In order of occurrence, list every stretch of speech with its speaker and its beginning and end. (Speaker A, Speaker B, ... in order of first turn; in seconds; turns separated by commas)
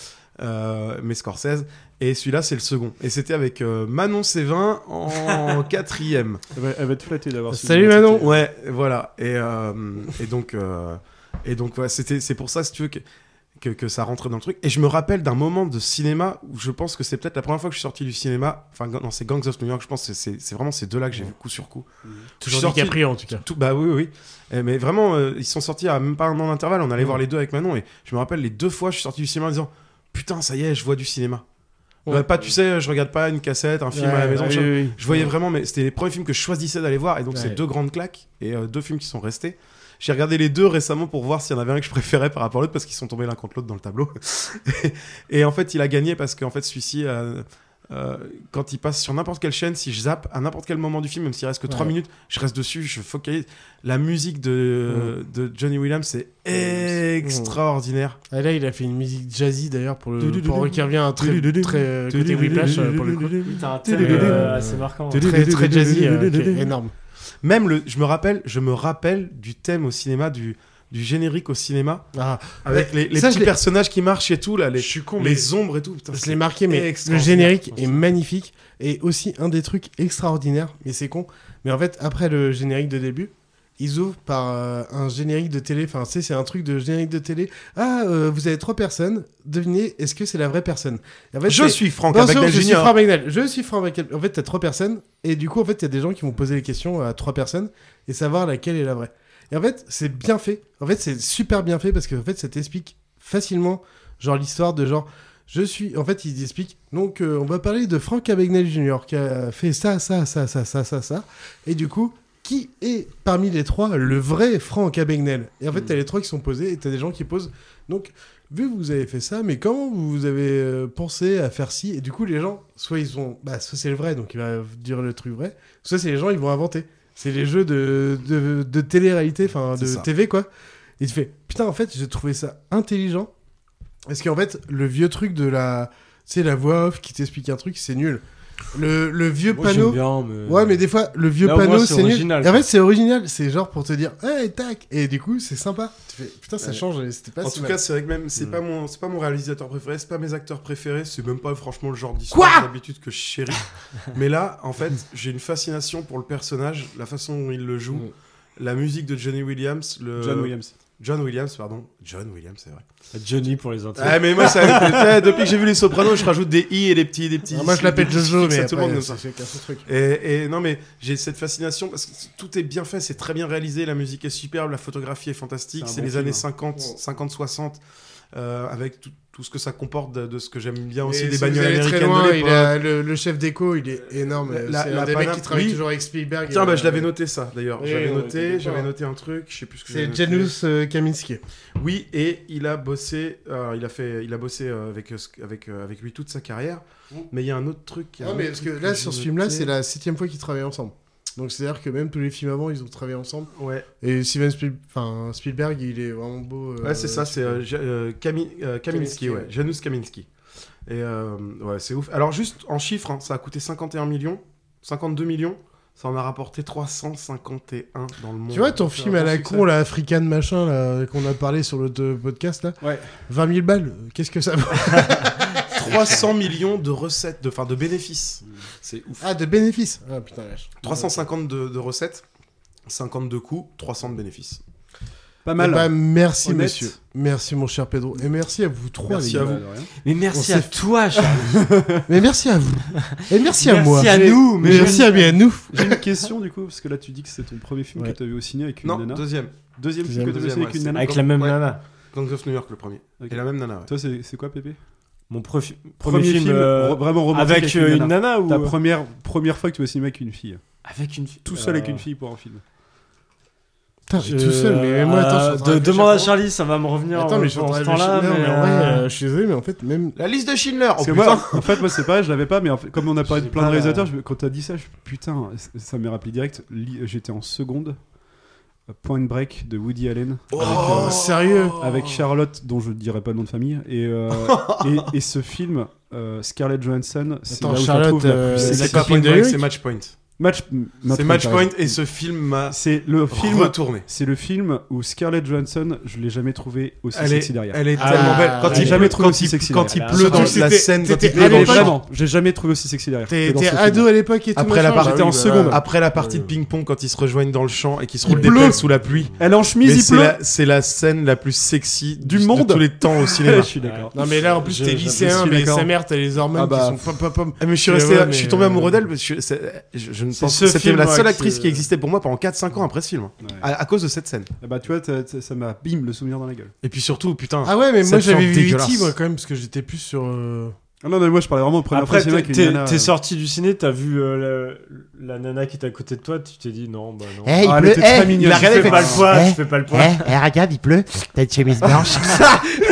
Speaker A: 0.4-6.4, Speaker B: 6.5-8.4, Speaker C: 7.5-8.3, Speaker A: 8.2-13.0, Speaker A: 13.6-21.9, Speaker C: 22.4-23.4, Speaker A: 22.4-31.4, Speaker A: 32.1-58.2, Speaker C: 33.9-35.3, Speaker C: 37.3-37.6, Speaker C: 51.7-51.9, Speaker C: 54.9-55.1, Speaker C: 56.5-57.6, Speaker C: 58.3-63.4, Speaker A: 60.2-64.5, Speaker D: 63.4-65.3, Speaker C: 64.0-66.9, Speaker A: 65.2-66.6, Speaker B: 65.4-65.8, Speaker A: 67.4-72.0, Speaker C: 72.1-73.5, Speaker A: 72.6-78.0, Speaker C: 74.7-75.5, Speaker C: 76.1-130.5, Speaker A: 91.5-92.9, Speaker A: 129.8-130.1, Speaker C: 131.0-133.3, Speaker C: 134.1-147.8, Speaker D: 139.5-140.8, Speaker D: 141.4-142.6, Speaker A: 147.4-162.8, Speaker C: 152.3-152.7, Speaker B: 160.2-160.7, Speaker D: 163.1-165.0, Speaker A: 164.0-169.2, Speaker C: 167.5-169.9, Speaker A: 169.8-177.8, Speaker B: 175.8-176.4, Speaker A: 178.3-182.8, Speaker C: 181.0-187.1, Speaker A: 184.2-185.8, Speaker A: 186.5-190.5, Speaker C: 187.8-188.9, Speaker C: 189.9-191.4, Speaker A: 191.8-199.7, Speaker C: 198.2-203.5, Speaker A: 203.6-203.9, Speaker C: 204.0-207.6, Speaker A: 206.8-210.3, Speaker C: 208.9-209.5, Speaker A: 210.8-219.6, Speaker C: 218.5-225.9, Speaker B: 222.8-223.2, Speaker A: 225.6-229.2, Speaker C: 229.2-231.2, Speaker A: 230.8-232.2, Speaker A: 232.9-234.6, Speaker B: 235.4-236.9, Speaker C: 235.6-239.6, Speaker A: 239.1-239.6, Speaker B: 239.1-239.9, Speaker D: 240.0-241.6, Speaker C: 240.3-240.7, Speaker B: 241.4-242.0, Speaker C: 242.1-246.0, Speaker D: 243.1-245.3, Speaker B: 244.6-245.2, Speaker B: 245.7-251.3, Speaker A: 248.8-253.9, Speaker C: 250.0-250.4, Speaker D: 250.9-251.8, Speaker B: 253.2-254.8, Speaker D: 255.3-258.8, Speaker B: 256.0-260.6, Speaker D: 260.8-262.0, Speaker B: 261.4-262.6, Speaker C: 264.1-266.4, Speaker D: 264.2-269.1, Speaker C: 267.1-270.1, Speaker A: 270.1-271.8, Speaker B: 271.0-278.0, Speaker D: 273.3-274.1, Speaker B: 278.9-281.2, Speaker A: 280.5-281.9, Speaker C: 280.6-281.8, Speaker B: 281.8-289.1, Speaker A: 284.4-284.9, Speaker C: 287.5-289.7, Speaker A: 288.6-290.1, Speaker B: 290.4-292.0, Speaker A: 291.1-294.0, Speaker B: 292.7-297.8, Speaker A: 297.1-301.9, Speaker D: 298.0-299.2, Speaker C: 298.0-299.0, Speaker B: 298.6-300.7, Speaker D: 299.9-300.6, Speaker C: 300.1-301.9, Speaker B: 301.2-304.1, Speaker C: 303.3-306.5, Speaker A: 304.6-315.5, Speaker B: 304.9-305.8, Speaker C: 308.2-309.2, Speaker B: 308.2-308.8, Speaker B: 309.4-310.4, Speaker B: 312.2-314.1, Speaker D: 313.8-315.4, Speaker C: 314.1-319.0, Speaker B: 315.2-315.9, Speaker B: 316.5-317.2, Speaker A: 317.6-324.5, Speaker D: 320.3-321.9, Speaker B: 323.4-323.7, Speaker B: 324.6-326.7, Speaker A: 326.8-329.1, Speaker C: 327.6-330.7, Speaker B: 331.0-333.1, Speaker D: 331.9-340.3, Speaker E: 337.4-342.6, Speaker B: 337.6-339.5